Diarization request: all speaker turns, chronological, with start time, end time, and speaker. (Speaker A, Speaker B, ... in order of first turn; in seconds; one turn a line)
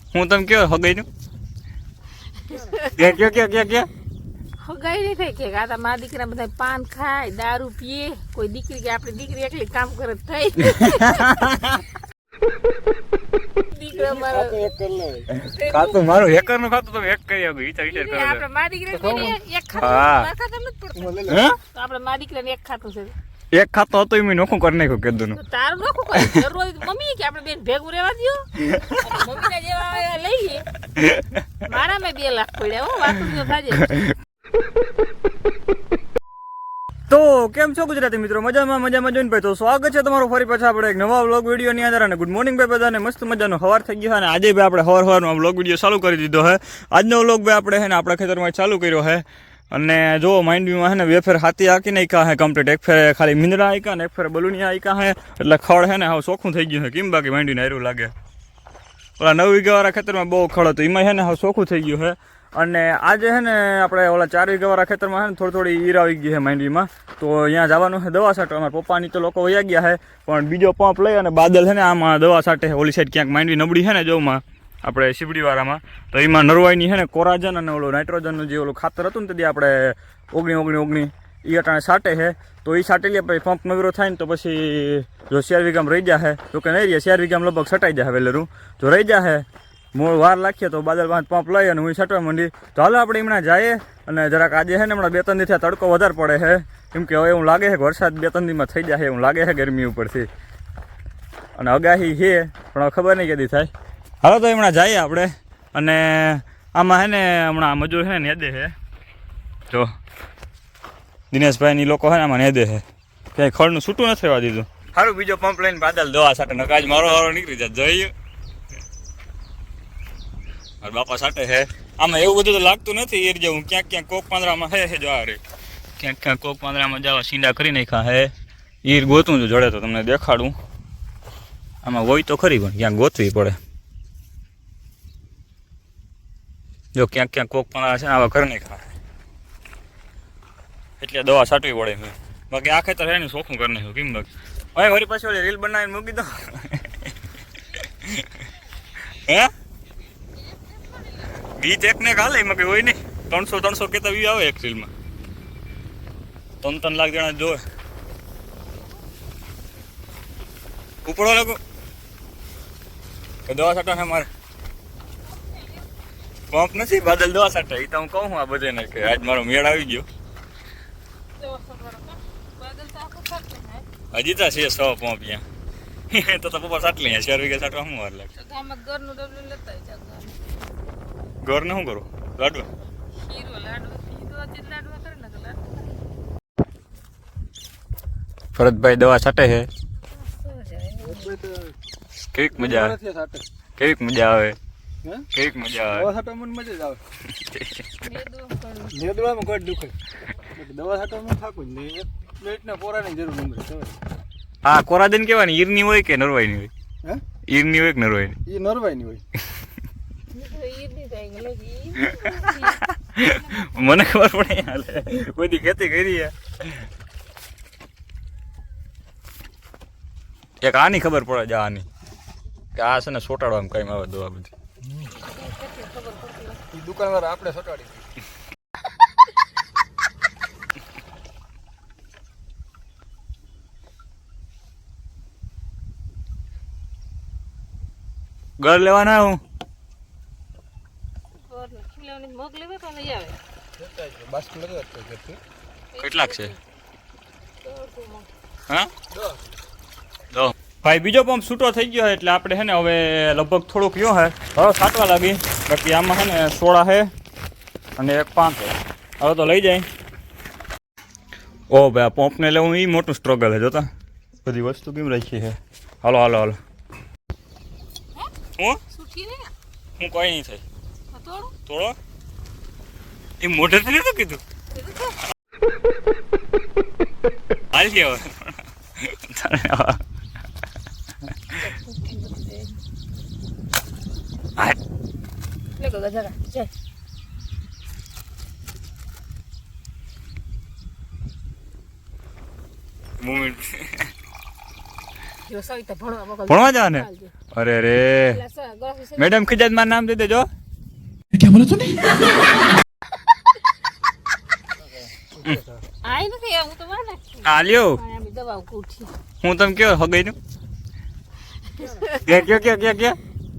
Speaker A: 0.1-1.1
Speaker B: 2.3-3.1
Speaker A: 2.9-3.9
Speaker B: 4.6-11.7
Speaker A: 10.7-11.8
Speaker B: 13.7-14.6
Speaker C: 13.9-15.3
Speaker A: 15.3-18.4
Speaker B: 15.4-16.5
Speaker B: 17.9-23.1
Speaker C: 18.9-19.4
Speaker A: 19.8-20.3
Speaker C: 20.9-21.4
Speaker A: 21.3-21.6
Speaker A: 23.5-25.4
Speaker B: 25.3-30.6
Speaker A: 26.1-26.4
Speaker A: 28.6-29.0
Speaker A: 30.9-31.4
Speaker B: 31.6-34.0
Speaker A: 33.9-34.1
Speaker A: 37.1-58.1
Speaker A: 59.2-100.3
Speaker A: 101.5-103.7
Speaker A: 104.2-108.7
Speaker A: 111.3-112.8
Speaker A: 113.3-118.1
Speaker A: 120.8-125.4
Speaker A: 126.0-128.3
Speaker A: 128.8-130.5
Speaker A: 131.8-133.6
Speaker A: 136.9-138.9
Speaker A: 141.0-147.1
Speaker A: 147.9-148.4
Speaker A: 149.1-149.5
Speaker B: 150.4-151.3
Speaker A: 151.4-154.9
Speaker A: 156.6-157.6
Speaker A: 161.0-161.6
Speaker A: 163.5-164.3
Speaker B: 165.3-165.8
Speaker A: 166.5-170.1
Speaker B: 171.4-173.8
Speaker A: 174.1-175.4
Speaker A: 176.1-178.3
Speaker B: 178.3-180.4
Speaker A: 181.4-182.7
Speaker B: 183.1-185.7
Speaker A: 188.5-189.7
Speaker B: 190.1-191.4
Speaker C: 191.0-191.7
Speaker A: 192.2-193.0
Speaker C: 192.5-193.4
Speaker A: 193.8-194.6
Speaker A: 195.3-196.1
Speaker C: 195.9-197.0
Speaker A: 197.3-197.8
Speaker B: 198.0-199.0
Speaker C: 198.9-199.9
Speaker C: 200.5-203.9
Speaker A: 204.6-206.7
Speaker A: 207.5-208.4
Speaker C: 208.4-209.2
Speaker B: 210.3-213.8
Speaker A: 212.0-216.8
Speaker A: 220.6-221.8
Speaker A: 222.7-224.5
Speaker B: 225.0-226.6
Speaker C: 226.7-228.0
Speaker A: 238.6-239.4
Speaker B: 241.3-243.4
Speaker C: 243.8-245.4
Speaker B: 245.9-246.6
Speaker A: 246.0-246.5
Speaker B: 247.6-248.3
Speaker C: 249.1-249.4
Speaker A: 250.3-257.1
Speaker A: 258.0-259.9
Speaker A: 261.7-263.9
Speaker A: 264.4-266.6
Speaker B: 268.9-269.5
Speaker A: 270.0-270.6
Speaker B: 271.1-271.5
Speaker A: 271.6-271.9
Speaker A: 273.4-274.4
Speaker B: 274.7-275.2
Speaker A: 277.7-280.0
Speaker B: 281.6-282.8
Speaker B: 285.8-286.7
Speaker A: 293.2-294.1
Speaker B: 295.5-297.3
Speaker A: 296.5-298.4
Speaker B: 298.3-299.4
Speaker A: 299.2-300.5
Speaker C: 305.4-305.8
Speaker B: 306.0-309.1
Speaker A: 307.4-308.0
Speaker A: 309.4-310.4
Speaker B: 311.6-312.3
Speaker A: 312.2-313.2